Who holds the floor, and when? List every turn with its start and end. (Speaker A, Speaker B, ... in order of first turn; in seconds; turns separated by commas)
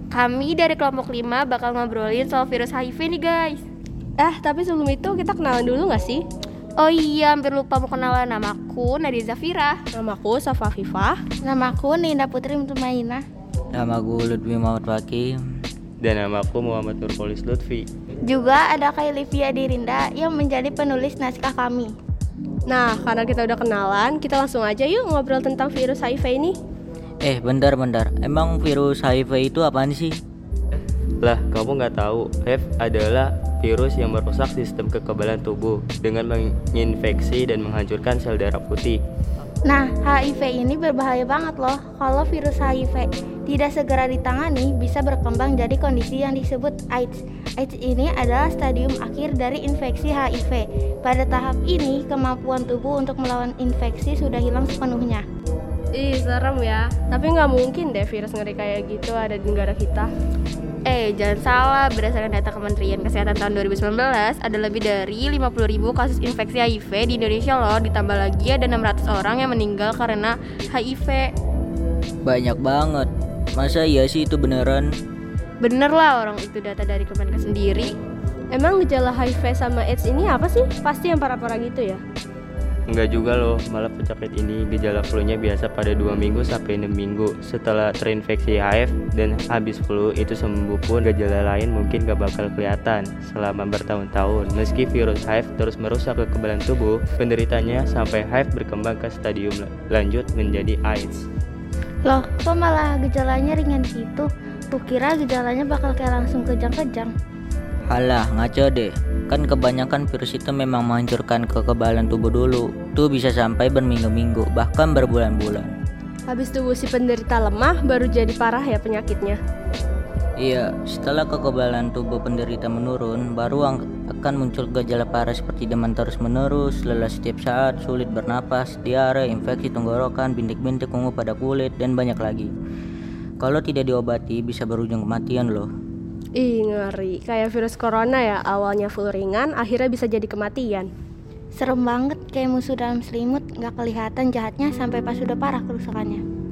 Speaker A: 0.1-3.6, Speaker B: 4.2-6.2, Speaker A: 6.8-9.8, Speaker B: 9.9-11.2, Speaker C: 11.4-13.2, Speaker D: 13.8-15.4, Speaker E: 16.0-17.9, Speaker C: 18.3-21.9, Speaker B: 22.7-26.6, Speaker D: 27.2-30.2, Speaker E: 31.2-39.0, Speaker C: 39.6-55.2, Speaker B: 55.9-60.1, Speaker A: 60.9-71.3, Speaker D: 72.2-75.0, Speaker A: 75.6-78.0, Speaker B: 78.5-82.0, Speaker E: 82.9-101.3, Speaker C: 102.0-107.1, Speaker D: 107.9-115.7, Speaker B: 116.3-119.4, Speaker D: 120.4-132.5, Speaker D: 133.4-135.7, Speaker B: 136.4-140.9, Speaker C: 141.6-146.2